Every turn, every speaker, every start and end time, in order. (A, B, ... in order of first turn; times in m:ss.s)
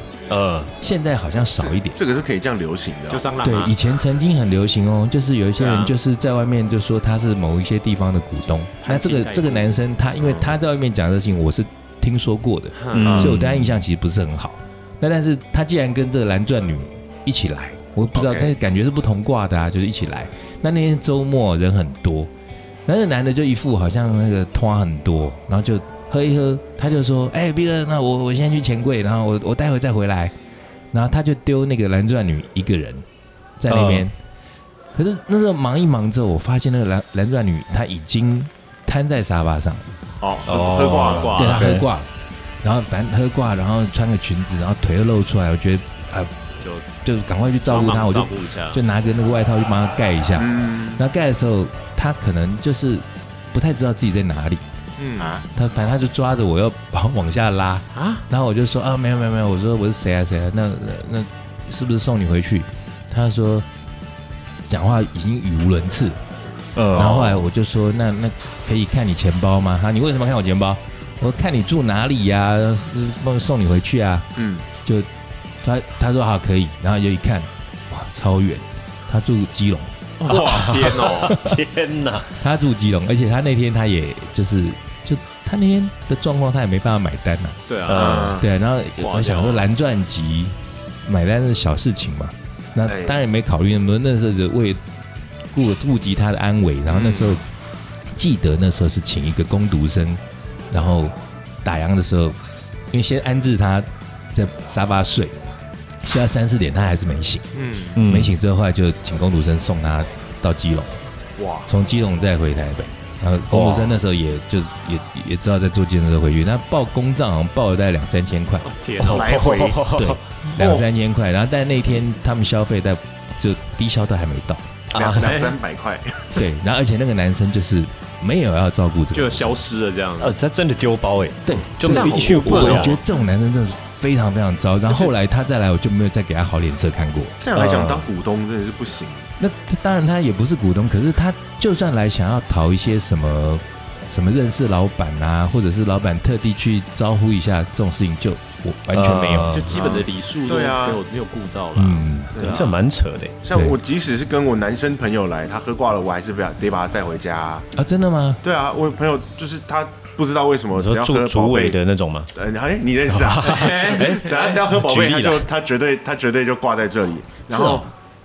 0:00.3-0:00.7 A
0:00.8-0:02.0 B
0:01.6-0:03.2 C
0:03.1-0:03.7 D
0:03.4-0:22.3 B
0:05.6-0:05.9 D
0:08.8-0:09.8 D
0:10.2-0:10.5 C
0:12.7-0:13.2 D
0:12.9-0:13.8 A
0:13.0-0:13.4 C
0:18.1-0:18.5 C
0:22.8-0:30.3 B
0:30.9-0:33.0 B
0:33.6-0:34.1 B
0:33.7-0:34.0 A
0:34.9-0:39.9 B
0:40.2-0:41.4 C
0:40.4-0:41.9 A
0:40.9-0:41.8 D
0:41.4-0:42.1 B
0:42.6-0:46.3 B
0:47.0-0:54.6 B
0:47.7-0:48.8 D
0:50.4-0:51.0 C
0:55.0-0:55.4 D
0:55.2-0:55.4 C
0:55.5-1:03.6 B
0:57.9-0:58.2 D
1:04.7-1:06.2 B
1:06.7-1:07.4 A
1:06.9-1:14.3 B
1:14.4-1:14.6 C
1:14.8-1:15.1 B
1:15.6-1:19.9 B
1:20.2-1:21.4 D
1:20.2-1:22.3 A
1:20.3-1:20.8 C
1:22.4-1:27.6 B
1:27.7-1:28.4 D
1:27.8-1:28.4 A
1:27.9-1:28.4 C
1:28.4-1:34.8 B
1:29.0-1:29.6 D
1:32.9-1:33.2 C
1:35.5-1:37.4 B
1:36.9-1:37.4 D
1:38.1-1:42.4 B
1:42.9-1:45.3 B
1:46.0-1:47.4 B
1:47.5-1:48.0 D
1:48.0-1:48.3 A
1:48.0-1:51.0 B
1:51.4-1:51.7 C
1:51.7-1:58.7 B
1:53.5-1:54.0 A
1:58.6-1:59.5 D
1:59.0-2:00.2 A
1:59.1-1:59.9 C
1:59.9-2:04.6 B
2:00.6-2:00.8 C
2:04.9-2:05.4 A
2:04.9-2:06.4 C
2:05.2-2:05.5 D
2:06.3-2:09.6 B
2:09.1-2:10.3 D
2:10.2-2:13.0 A
2:11.4-2:17.4 B
2:11.8-2:13.0 D
2:14.9-2:15.1 C
2:17.4-2:19.3 C
2:17.5-2:18.1 A
2:19.4-2:29.6 B
2:28.9-2:29.8 A
2:29.5-2:32.1 D
2:29.7-2:31.0 C
2:31.8-2:32.6 B
2:32.3-2:32.7 C
2:32.4-2:33.4 A
2:33.4-2:37.7 C
2:37.8-2:38.4 B
2:38.4-2:41.8 C
2:40.7-2:42.3 A
2:42.3-2:47.9 C
2:43.1-2:45.5 A
2:43.4-2:44.6 D
2:47.5-2:47.9 B